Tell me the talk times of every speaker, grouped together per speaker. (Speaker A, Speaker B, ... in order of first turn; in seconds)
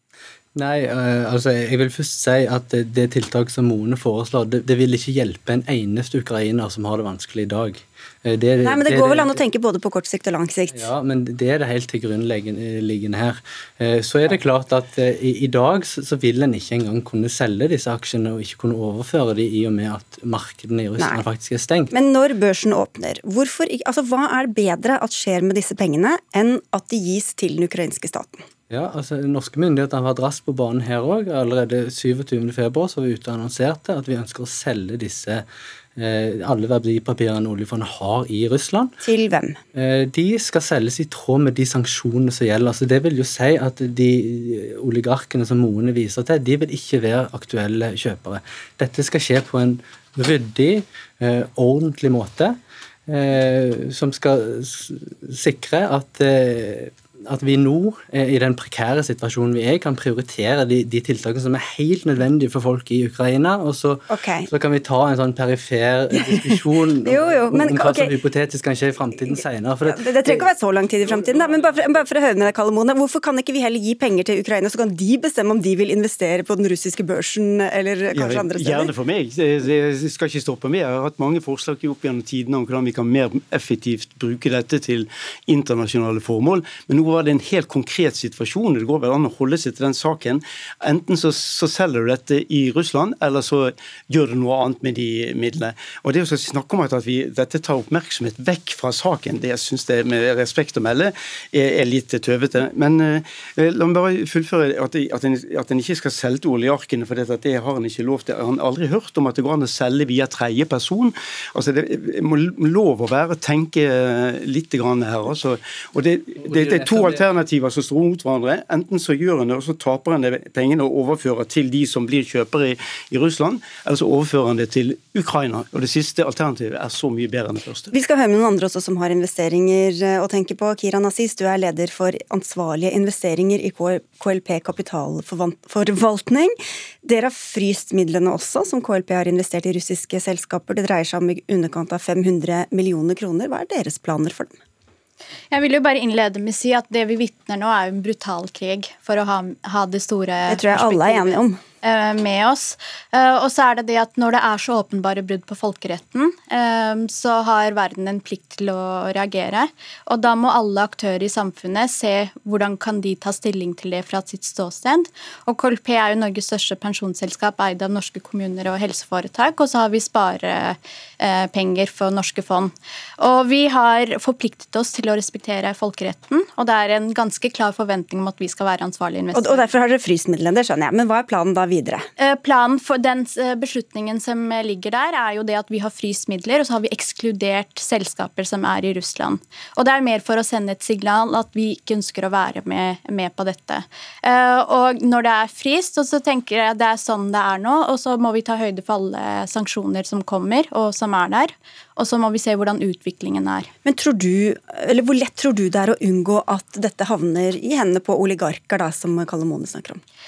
Speaker A: 0.6-9.4, 10.7-21.9, 28.7-39.0, 39.7-70.5, 116.5-117.2
Speaker B: 8.6-10.9, 21.9-28.4, 39.0-39.6, 64.1-64.5, 66.1-68.1, 69.8-78.9, 127.9-144.6, 150.5-151.6, 179.3-182.1, 203.8-210.0
Speaker C: 71.1-71.8, 78.1-127.9
Speaker D: 145.5-179.7, 182.2-203.7